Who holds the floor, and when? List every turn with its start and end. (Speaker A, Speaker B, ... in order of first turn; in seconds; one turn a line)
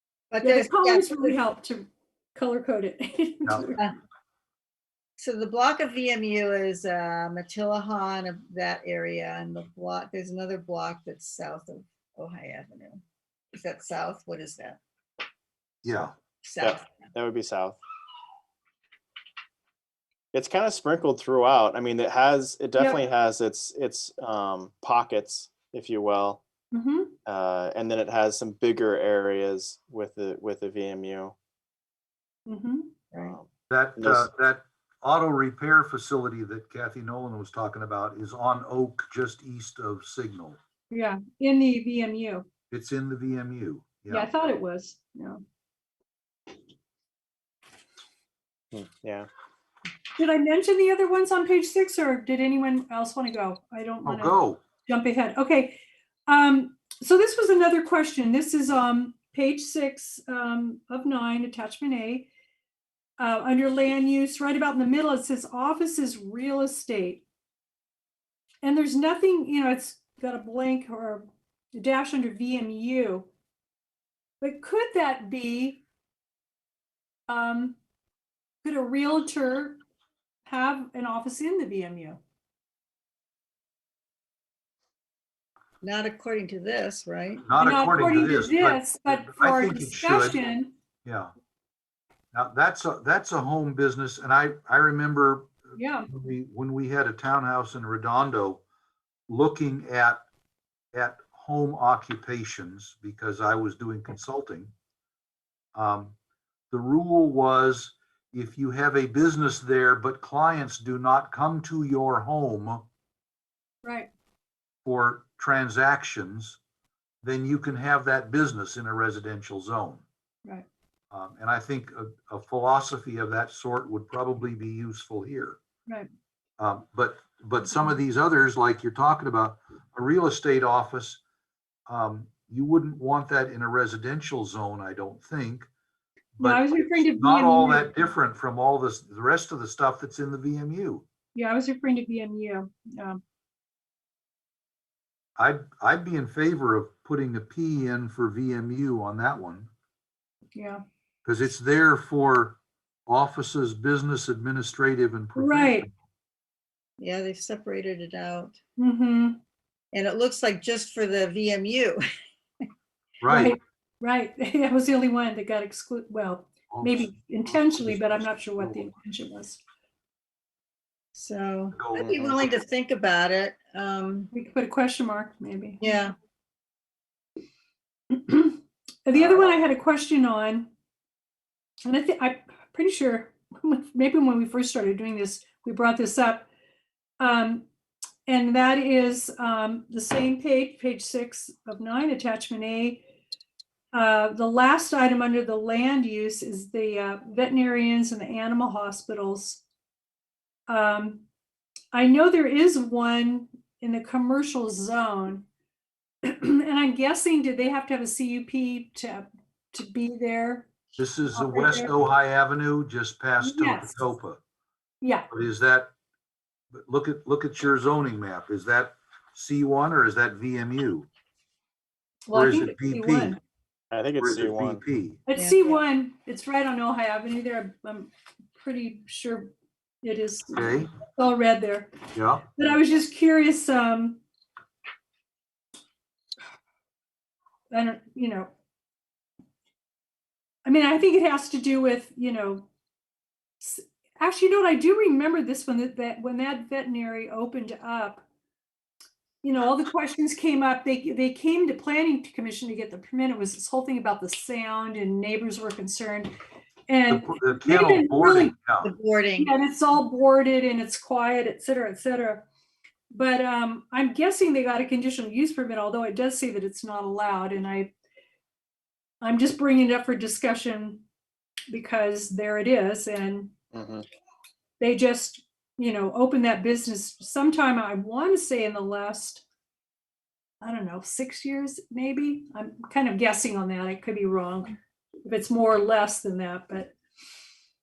Speaker A: 0.3-1.4
Speaker B: 0.4-3.9
Speaker A: 5.2-13.0
Speaker A: 13.5-14.8
Speaker C: 15.8-16.1
Speaker A: 16.4-16.9
Speaker D: 16.6-17.8
Speaker D: 20.3-26.4
Speaker B: 26.7-27.1
Speaker D: 27.3-31.3
Speaker B: 32.5-32.9
Speaker D: 33.2-33.5
Speaker C: 33.7-40.6
Speaker D: 34.0-34.3
Speaker B: 40.9-42.5
Speaker C: 42.7-44.3
Speaker B: 44.1-45.4
Speaker D: 48.7-49.3
Speaker B: 50.2-62.3
Speaker C: 54.0-54.6
Speaker B: 63.2-67.2
Speaker B: 68.6-73.3
Speaker B: 74.4-75.8
Speaker B: 77.3-77.8
Speaker B: 78.6-79.8
Speaker B: 80.5-82.2
Speaker A: 85.8-87.5
Speaker C: 87.5-90.4
Speaker B: 87.6-90.7
Speaker C: 91.0-91.3
Speaker C: 92.3-98.6
Speaker B: 95.8-96.1
Speaker C: 99.3-100.2
Speaker C: 100.9-104.7
Speaker C: 105.8-106.2
Speaker C: 106.7-112.8
Speaker B: 113.8-114.1
Speaker C: 114.8-116.6
Speaker C: 117.2-120.0
Speaker C: 121.1-125.6
Speaker C: 126.6-131.2
Speaker C: 131.9-135.7
Speaker C: 136.4-141.0
Speaker B: 136.4-138.0
Speaker B: 141.3-143.2
Speaker C: 145.4-149.7
Speaker B: 150.6-150.8
Speaker C: 151.2-155.9
Speaker B: 155.4-155.9
Speaker A: 157.0-158.6
Speaker B: 158.8-159.4
Speaker A: 159.9-162.0
Speaker C: 163.2-163.6
Speaker B: 163.3-169.6
Speaker C: 166.7-168.9
Speaker A: 171.2-174.3
Speaker C: 171.8-172.5
Speaker D: 172.0-172.3
Speaker B: 174.3-175.8
Speaker A: 175.8-176.2
Speaker B: 178.1-180.7
Speaker B: 181.8-186.5
Speaker B: 187.2-187.7
Speaker B: 188.3-193.0
Speaker B: 193.9-199.6
Speaker B: 200.7-201.2
Speaker B: 201.9-205.5
Speaker B: 206.2-210.7
Speaker C: 211.0-214.4
Speaker B: 211.3-211.9
Speaker B: 213.4-214.1
Speaker B: 215.0-215.3
Speaker C: 215.3-215.9
Speaker C: 216.7-221.1
Speaker B: 222.3-223.4
Speaker C: 222.3-223.4
Speaker D: 223.9-224.8
Speaker C: 224.2-225.2
Speaker B: 225.3-232.0
Speaker A: 225.3-225.8
Speaker C: 230.5-230.9
Speaker C: 232.2-232.5
Speaker B: 232.5-234.2
Speaker B: 237.7-238.5
Speaker B: 240.6-242.7
Speaker B: 243.6-248.2
Speaker B: 249.4-256.4
Speaker B: 256.9-258.5
Speaker C: 257.1-258.9
Speaker A: 258.8-259.5
Speaker B: 259.4-262.5
Speaker B: 263.1-267.9
Speaker B: 269.2-271.0
Speaker B: 271.7-273.5
Speaker D: 273.7-274.1
Speaker B: 274.8-279.4
Speaker B: 280.6-286.9